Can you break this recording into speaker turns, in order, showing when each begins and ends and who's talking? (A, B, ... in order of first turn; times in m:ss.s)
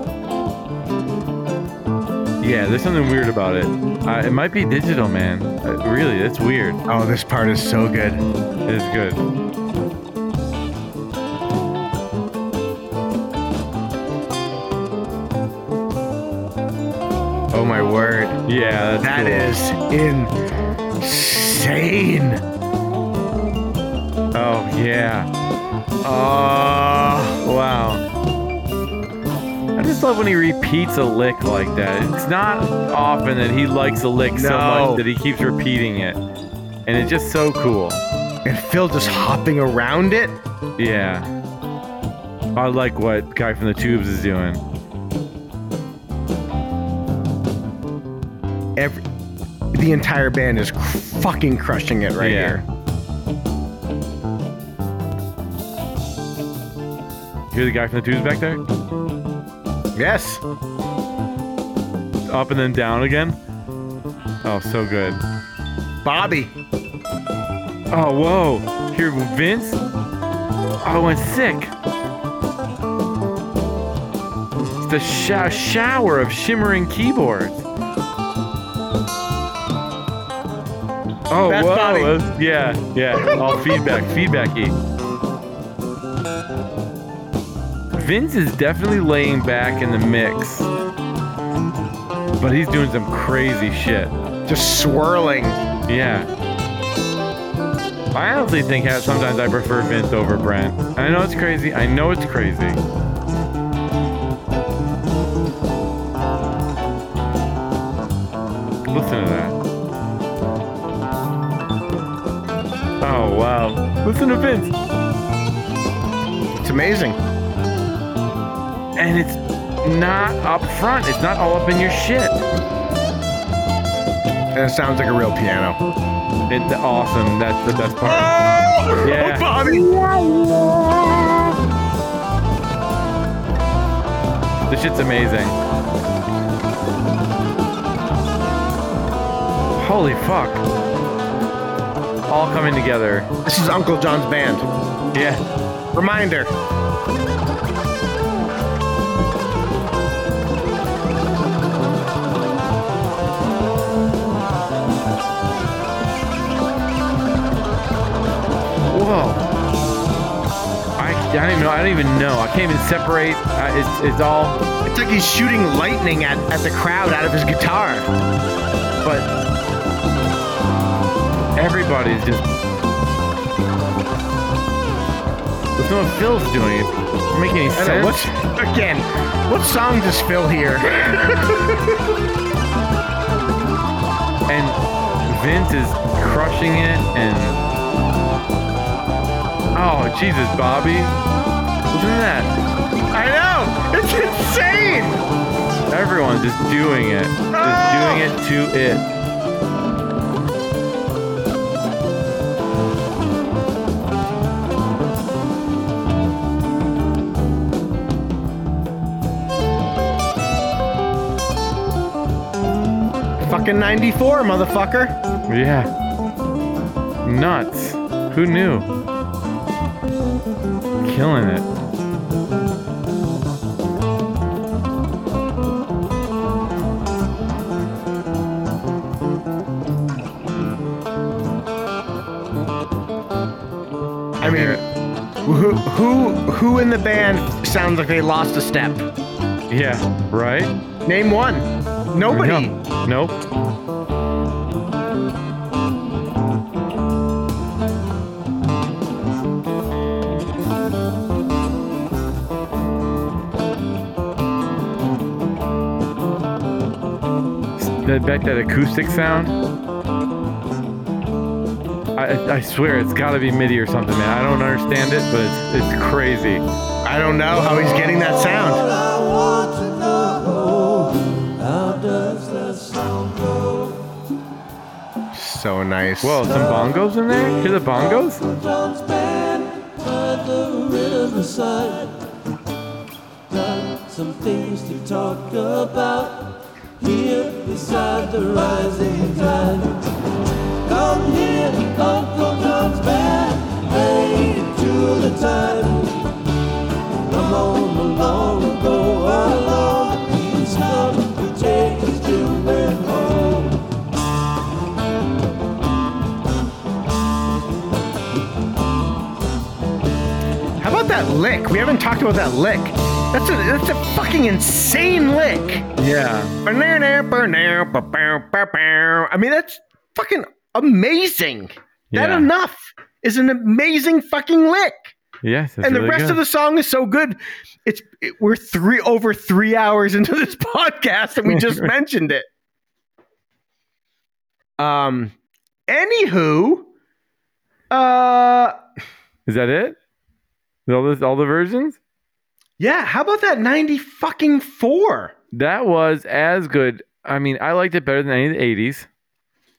0:02.4-0:06.8 A
0:06.9-0:08.2 B
0:08.7-0:09.2 A
0:17.5-0:18.4 B
0:18.5-0:19.5 A
0:19.0-0:20.4 B
0:21.0-0:22.4 B
0:24.3-0:25.3 A
0:26.0-0:27.4 B
0:27.4-0:28.0 A
0:29.8-0:36.2 A
0:34.3-0:35.0 B
0:36.9-0:38.0 A
0:38.4-0:40.4 B
0:40.8-0:41.3 A
0:42.6-0:44.6 A
0:48.8-0:49.0 B
0:49.7-0:52.6 B
0:52.2-0:52.6 A
0:57.5-0:58.6 A
1:00.0-1:00.4 B
1:02.3-1:03.4 A
1:04.4-1:05.2 A
1:06.0-1:06.5 B
1:07.9-1:09.8 A
1:10.8-1:11.7 A
1:14.8-1:17.7 A
1:21.3-1:24.8 A
1:21.4-1:22.2 B
1:23.2-1:24.0 B
1:27.9-1:30.7 A
1:32.4-1:34.1 A
1:34.5-1:35.6 B
1:35.9-1:36.3 A
1:38.1-1:42.8 A
1:48.9-1:49.6 A
1:53.0-1:54.7 A
1:56.6-1:57.2 B
1:59.0-2:02.4 A
2:04.6-2:05.8 B
2:06.5-2:08.3 A
2:08.0-2:10.0 B
2:09.0-2:09.6 A
2:14.7-2:15.6 A
2:19.8-2:20.6 A
2:22.3-2:23.3 A
2:23.4-2:24.7 B
2:25.1-2:25.4 A
2:25.9-2:26.5 B
2:38.9-2:39.5 A
2:41.0-2:44.6 A
2:44.9-2:48.1 B
2:51.6-2:52.5 A
2:55.8-2:58.3 A
2:57.7-3:02.1 B
3:04.5-3:07.6 A
3:09.7-3:11.2 A
3:11.9-3:12.6 A
3:13.1-3:15.2 B
3:15.9-3:19.1 A
3:17.5-3:18.3 B
3:33.4-3:35.2 B
3:35.5-3:35.9 A
3:37.2-3:38.9 A
3:41.0-3:41.7 A
3:54.4-3:54.8 B
3:54.4-3:54.8 A
3:55.5-3:59.1 B
3:59.7-4:00.7 A
4:01.0-4:02.8 B
4:02.3-4:03.4 A
4:17.8-4:19.6 A
4:22.2-4:26.6 A
4:27.0-4:28.8 B
4:28.8-4:34.0 C
4:35.3-4:36.6 B
4:36.2-4:38.4 A
4:38.4-4:42.2 C
4:43.5-4:50.1 C
4:50.8-4:56.3 C
4:57.2-5:03.8 C
5:10.8-5:15.9 B
5:16.0-5:16.5 A
5:16.6-5:25.2 B
5:22.1-5:22.5 A
5:25.4-5:26.4 A
5:25.8-5:32.5 B
5:31.5-5:31.9 A
5:34.8-5:35.3 B
5:35.9-5:36.9 B
5:37.9-5:38.8 B
5:39.5-5:40.0 A
5:40.9-5:42.0 A
5:42.8-5:45.3 B
5:45.5-5:49.1 A